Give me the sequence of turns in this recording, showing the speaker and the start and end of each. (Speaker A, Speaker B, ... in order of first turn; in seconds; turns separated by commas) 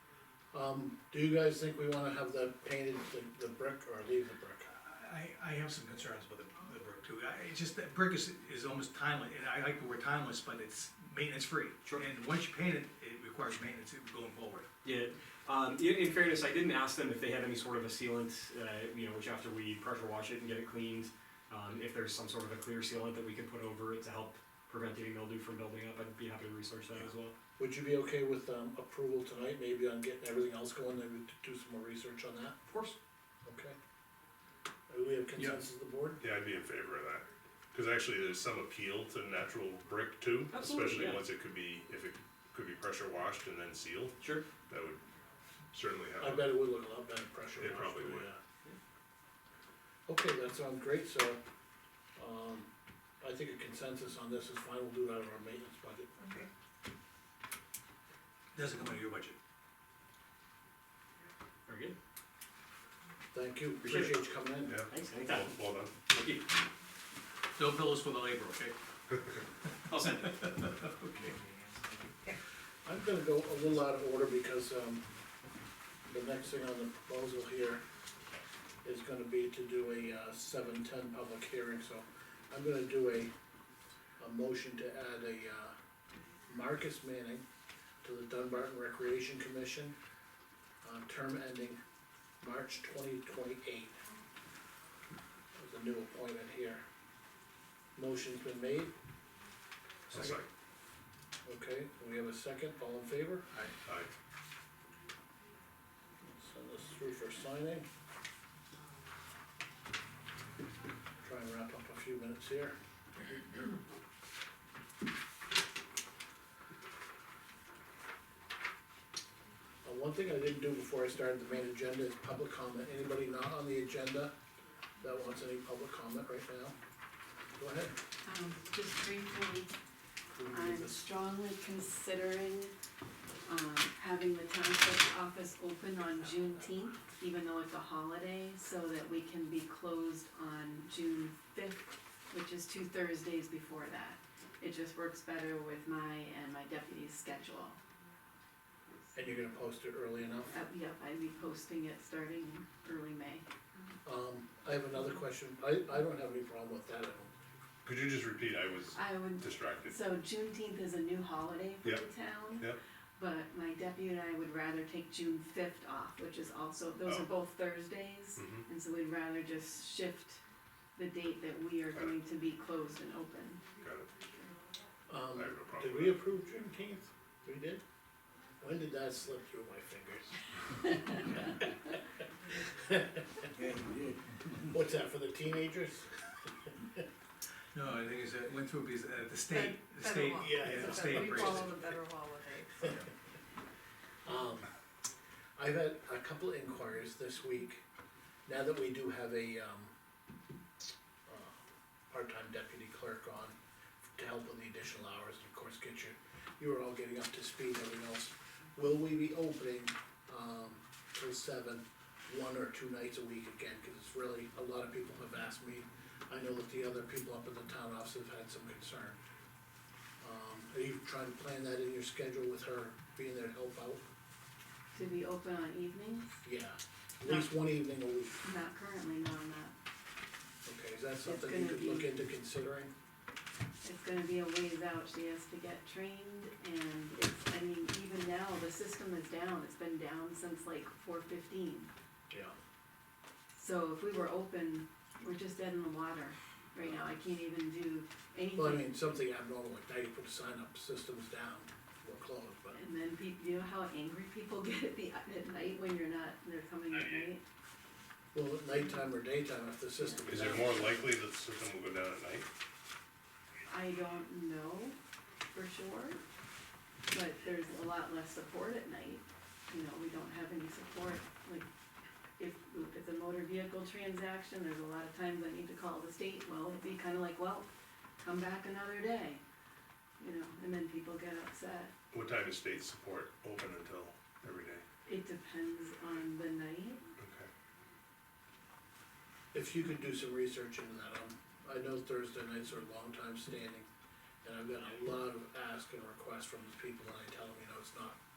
Speaker A: 0.5-4.7, Speaker B: 4.7-14.7, Speaker C: 14.8-27.4, Speaker A: 27.6-32.7, Speaker A: 33.4-33.8, Speaker A: 34.9-36.2, Speaker D: 36.2-45.0, Speaker C: 40.5-41.2, Speaker C: 44.2-44.5, Speaker D: 45.7-46.6, Speaker A: 46.2-48.4, Speaker D: 47.6-48.3, Speaker A: 50.1-51.4, Speaker A: 52.1-52.7, Speaker A: 53.2-56.4, Speaker B: 58.5-59.4, Speaker C: 61.7-62.0, Speaker A: 63.3-64.8, Speaker C: 63.8-64.3, Speaker D: 64.7-65.9, Speaker C: 64.9-66.5, Speaker B: 67.5-68.8, Speaker B: 69.9-70.9, Speaker C: 69.9-70.3, Speaker C: 71.1-71.6, Speaker A: 72.8-75.0, Speaker A: 76.0-77.8, Speaker A: 78.8-83.3, Speaker A: 84.2-85.8, Speaker A: 86.5-87.4, Speaker A: 88.0-90.0, Speaker A: 90.8-91.8, Speaker A: 92.4-94.0, Speaker A: 95.5-96.8, Speaker A: 97.9-98.9, Speaker D: 100.1-100.5, Speaker A: 101.4-103.5, Speaker D: 103.8-104.1, Speaker A: 106.2-107.9, Speaker A: 111.2-112.8, Speaker A: 119.8-124.3, Speaker A: 125.0-126.8, Speaker A: 127.5-128.0, Speaker E: 128.2-129.8, Speaker A: 130.3-131.0, Speaker E: 130.5-132.7, Speaker E: 133.4-147.8, Speaker A: 149.1-150.5, Speaker E: 150.5-153.8, Speaker A: 154.0-157.3, Speaker D: 157.8-159.9, Speaker E: 158.9-170.4, Speaker D: 168.4-168.6, Speaker E: 170.9-173.7, Speaker D: 173.8-174.1, Speaker A: 175.1-177.8, Speaker D: 175.3-176.2, Speaker A: 178.6-181.9, Speaker A: 182.8-183.4, Speaker A: 184.6-187.0, Speaker B: 187.7-191.9, Speaker F: 189.5-193.0, Speaker A: 190.3-191.8, Speaker A: 194.2-194.7, Speaker A: 195.6-197.8, Speaker A: 198.4-199.9, Speaker A: 201.3-203.6, Speaker A: 204.1-219.2, Speaker A: 220.2-224.1, Speaker E: 224.9-226.4, Speaker A: 226.4-228.4, Speaker E: 228.4-229.7, Speaker A: 230.6-232.9, Speaker E: 231.2-232.1, Speaker E: 233.8-241.9, Speaker A: 242.3-242.5, Speaker E: 243.5-248.9, Speaker A: 248.5-252.8, Speaker E: 252.7-257.4, Speaker A: 258.3-261.1, Speaker D: 260.2-262.5, Speaker E: 260.3-260.6, Speaker E: 263.6-265.0, Speaker E: 265.5-266.2, Speaker E: 267.1-271.7, Speaker E: 272.4-279.4, Speaker E: 280.2-281.9, Speaker D: 282.1-284.8, Speaker E: 285.1-287.0, Speaker D: 287.2-287.5, Speaker A: 289.5-293.9, Speaker A: 294.4-298.2